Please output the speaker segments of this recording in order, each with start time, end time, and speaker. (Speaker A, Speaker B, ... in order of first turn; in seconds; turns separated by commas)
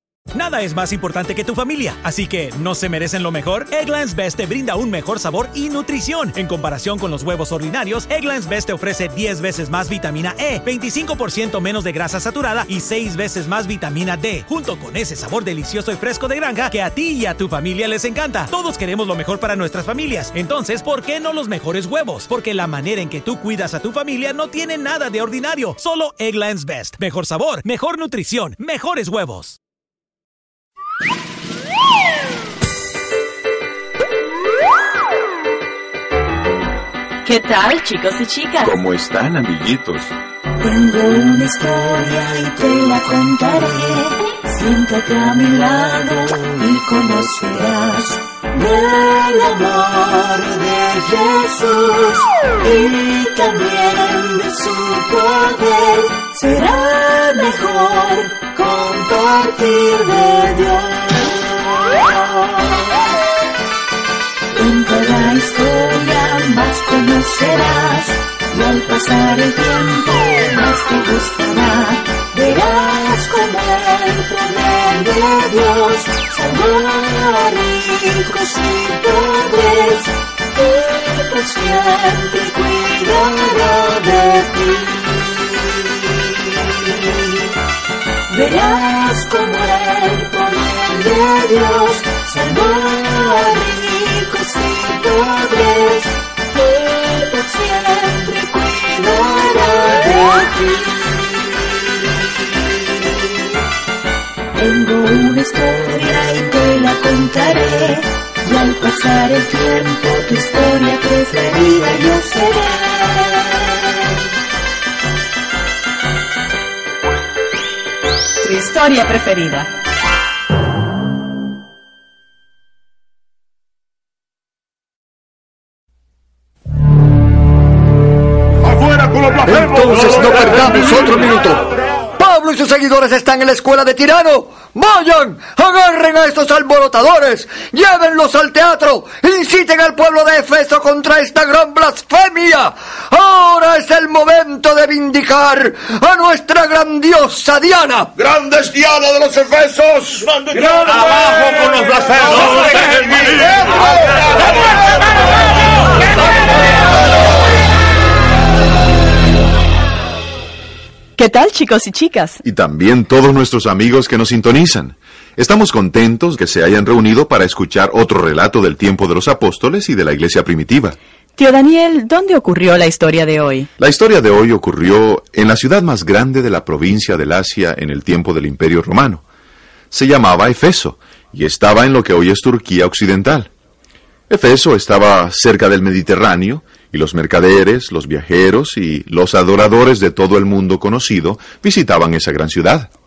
Speaker A: 0.3-29.6, Speaker B: 37.2-38.7, Speaker C: 38.6-40.1, Speaker D: 40.6-62.9, Speaker D: 64.5-87.2, Speaker D: 88.3-102.0, Speaker D: 104.5-113.7, Speaker B: 118.4-119.7, Speaker E: 129.4-131.6, Speaker E: 132.2-148.1, Speaker F: 148.2-150.3, Speaker G: 150.6-152.6, Speaker B: 161.2-162.4, Speaker C: 162.4-171.0, Speaker B: 171.4-173.7, Speaker C: 173.8-179.2, Speaker C: 179.9-183.5, Speaker C: 184.3-192.9